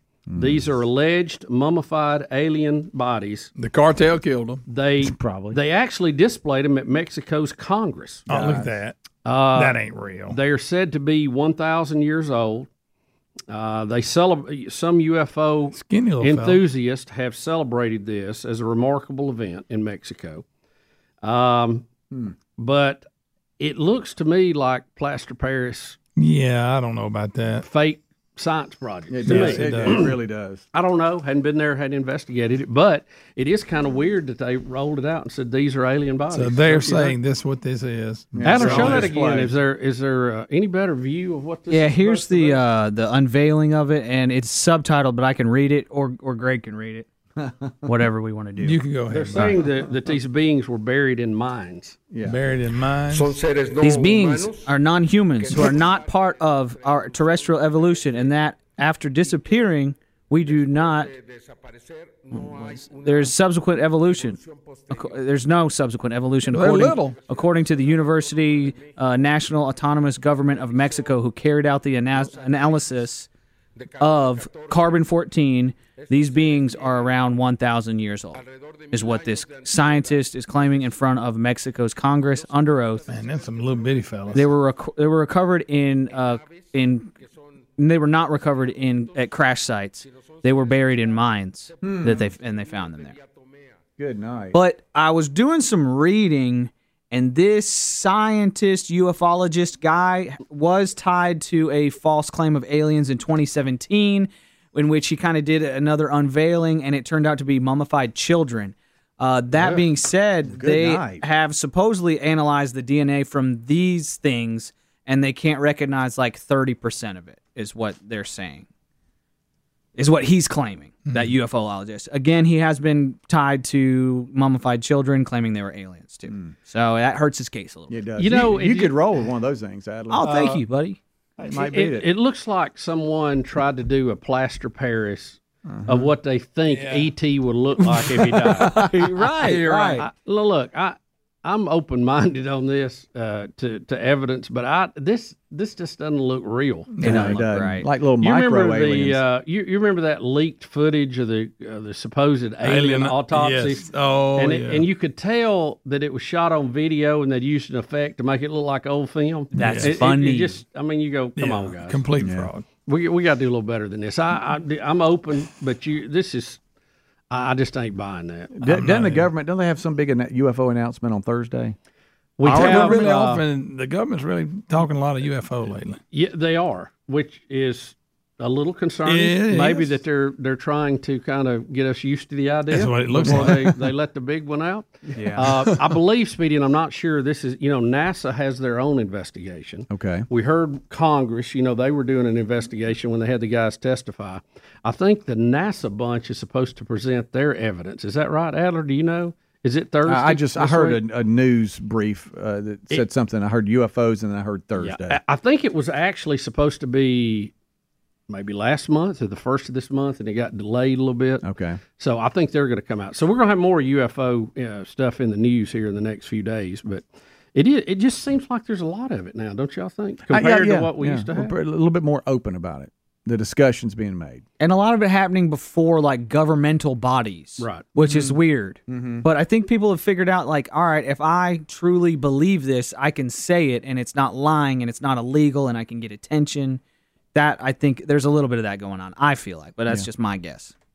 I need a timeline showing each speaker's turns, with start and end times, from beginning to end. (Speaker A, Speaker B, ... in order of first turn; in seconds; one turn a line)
Speaker A: 0.3-0.6
Speaker B: 0.4-3.5
Speaker C: 3.6-4.6
Speaker B: 4.7-8.3
Speaker A: 5.0-5.6
Speaker A: 8.3-8.7
Speaker C: 8.3-8.9
Speaker B: 9.2-12.7
Speaker C: 9.6-10.4
Speaker B: 13.5-20.4
Speaker C: 15.7-16.6
Speaker B: 21.2-21.9
Speaker A: 22.1-22.4
Speaker B: 22.6-23.1
Speaker B: 23.6-26.0
Speaker C: 26.2-27.6
Speaker B: 27.6-30.1
Speaker A: 29.1-30.6
Speaker C: 29.3-30.1
Speaker B: 30.7-37.2
Speaker C: 36.3-39.1
Speaker A: 38.3-39.5
Speaker B: 38.4-42.6
Speaker D: 41.7-47.1
Speaker A: 47.4-47.9
Speaker D: 47.9-48.8
Speaker C: 48.6-49.6
Speaker B: 49.1-52.0
Speaker A: 52.1-52.4
Speaker C: 52.2-53.3
Speaker D: 53.8-61.1
Speaker D: 62.3-73.3
Speaker C: 66.5-67.2
Speaker D: 74.0-83.1
Speaker C: 83.1-84.5
Speaker D: 84.3-87.1
Speaker D: 87.8-93.2
Speaker A: 91.8-92.3
Speaker A: 94.0-94.6
Speaker D: 94.5-118.7
Speaker A: 110.5-111.3
Speaker D: 120.0-128.0
Speaker C: 121.0-121.3
Speaker A: 126.3-126.5
Speaker A: 127.9-130.5
Speaker B: 128.2-129.0
Speaker D: 130.1-131.0
Speaker A: 131.4-132.1
Speaker B: 131.5-138.9
Speaker A: 135.7-136.1
Speaker C: 136.7-137.1
Speaker D: 138.6-140.1
Speaker A: 138.6-138.9
Speaker A: 139.4-140.0
Speaker B: 139.4-147.0
Speaker C: 147.0-147.4
Speaker D: 147.0-147.9
Speaker A: 147.0-149.2
Speaker B: 148.2-162.0
Speaker C: 152.6-154.9
Speaker D: 159.5-160.6
Speaker C: 159.6-160.0
Speaker C: 161.4-162.7
Speaker A: 162.2-162.5
Speaker B: 162.9-166.6
Speaker B: 167.3-168.6
Speaker A: 168.6-171.8
Speaker C: 168.7-169.3
Speaker B: 172.4-173.4
Speaker C: 172.5-176.0
Speaker A: 172.5-173.1
Speaker B: 176.1-201.0
Speaker C: 179.1-180.0
Speaker C: 182.7-183.8
Speaker A: 183.2-183.5
Speaker D: 185.2-185.4
Speaker A: 189.9-190.3
Speaker A: 200.1-205.2
Speaker B: 204.8-207.5
Speaker B: 208.3-211.4
Speaker A: 211.4-211.8
Speaker B: 212.0-221.5
Speaker A: 220.3-224.4
Speaker D: 224.6-236.8
Speaker B: 227.6-227.9
Speaker A: 228.0-229.3
Speaker D: 237.3-240.7